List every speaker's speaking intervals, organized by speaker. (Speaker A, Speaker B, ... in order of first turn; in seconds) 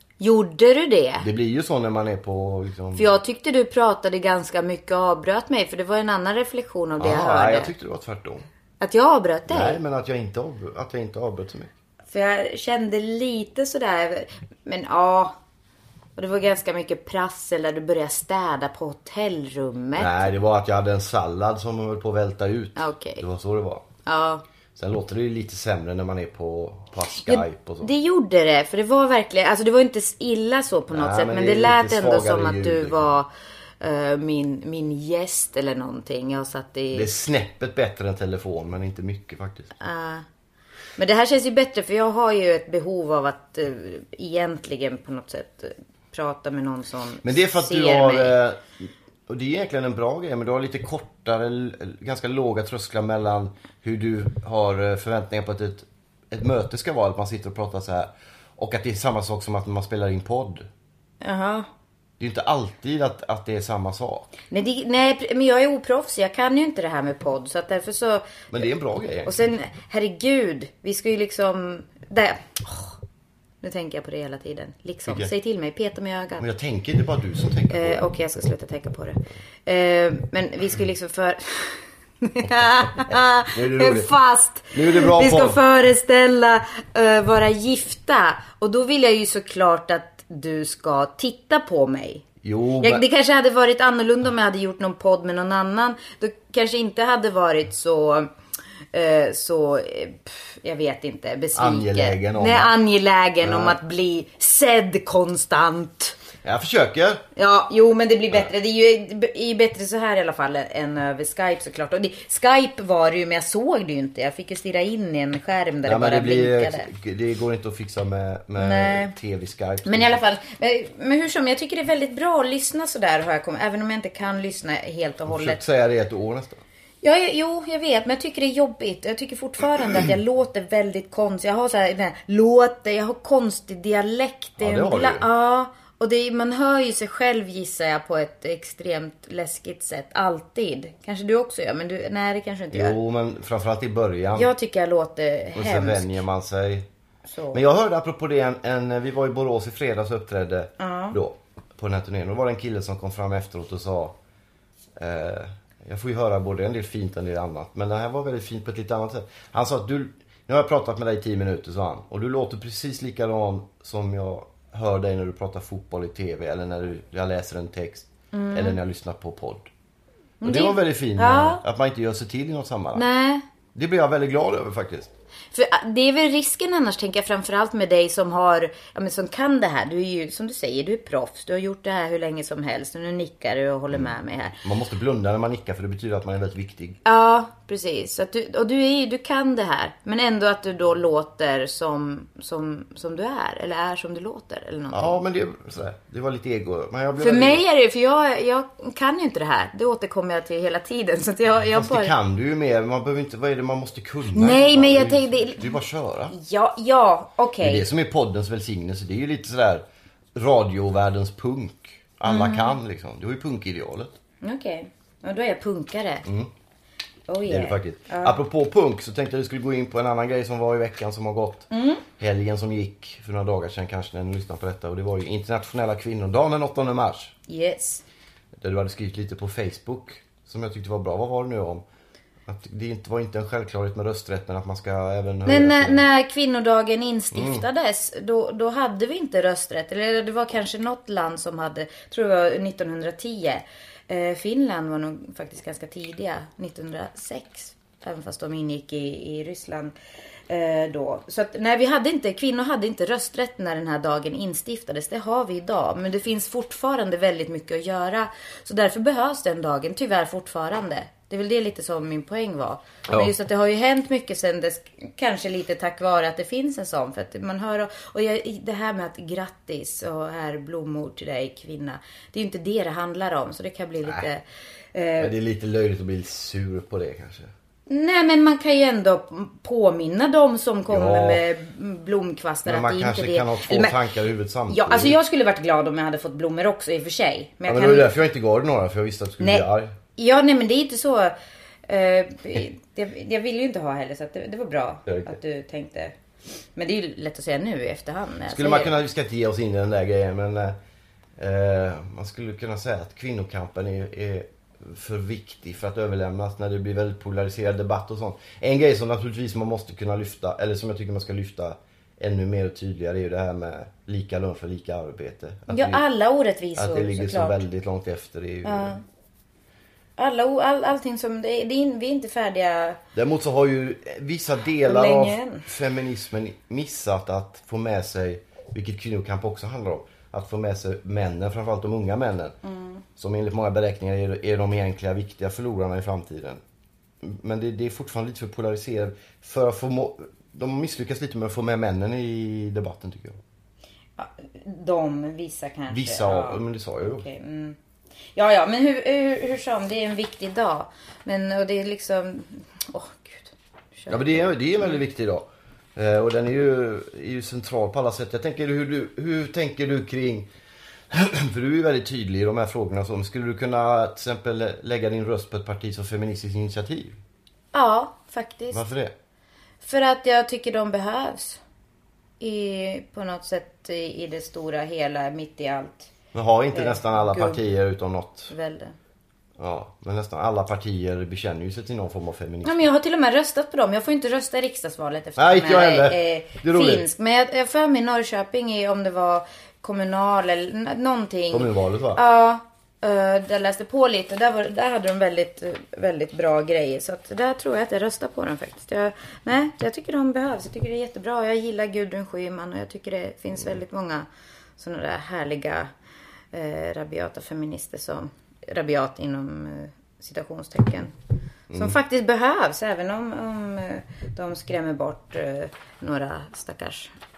Speaker A: 0.2-1.3, 2.9-7.7, 8.8-9.8, 12.1-15.3, 16.1-20.3, 22.8-23.2, 24.1-24.4, 27.1-33.3, 33.8-37.1, 39.8-40.2, 41.0-48.4, 61.2-61.7, 64.5-68.4, 69.2-73.0, 73.6-76.5, 77.7-92.2, 92.8-98.3, 98.9-106.2, 107.3-116.9, 118.6-119.1, 119.8-125.6, 127.0-142.9, 144.3-146.2, 147.3-147.6, 150.8-151.2, 168.3-168.8, 170.4-171.6, 172.9-173.4, 175.5-184.6, 187.0-195.2, 197.2-202.1, 204.3-205.8, 206.3-207.8, 212.2-212.8, 214.4-216.2, 217.3-218.4, 221.7-222.0, 227.5-228.0, 235.4-249.9, 250.5-274.4, 274.9-275.3, 277.9-284.0, 284.7-288.1, 289.4-291.3, 291.9-296.1, 296.8-298.9, 315.7-317.6, 318.6-319.0, 320.2-323.0, 324.8-325.7, 332.6-333.0, 344.2-347.8, 348.3-354.5, 367.7-368.8, 369.8-371.6, 372.4-376.1, 376.7-377.7, 378.5-378.9, 382.6-404.2, 404.8-405.9, 406.5-411.1, 411.7-417.1
Speaker B: 1.2-3.1, 7.0-8.4, 9.5-11.7, 20.0-23.8, 24.7-27.9, 30.9-33.1, 36.9-39.7, 47.2-60.7, 62.2-64.3, 68.5-69.3, 76.4-78.0, 83.5-84.1, 84.7-85.6, 92.4-93.0, 101.5-102.7, 103.4-103.8, 106.4-107.2, 115.8-120.2, 125.2-126.6, 134.6-135.3, 142.7-144.5, 145.5-146.9, 147.5-154.2, 155.0-169.7, 170.4-173.0, 173.7-175.1, 184.6-187.0, 194.9-197.6, 201.7-206.3, 207.6-214.1, 216.2-216.5, 217.5-227.3, 228.6-231.8, 232.4-236.0, 237.3-237.6, 275.2-277.5, 280.9-281.4, 282.6-285.2, 287.6-289.9, 295.1-295.3, 298.5-300.8, 301.4-316.0, 316.8-319.0, 323.1-332.6, 333.2-336.6, 337.2-343.4, 345.9-347.2, 354.1-360.5, 361.1-367.2, 368.7-369.1, 376.3-378.5, 379.6-382.8, 385.4-387.1, 391.5-392.2, 411.7-412.0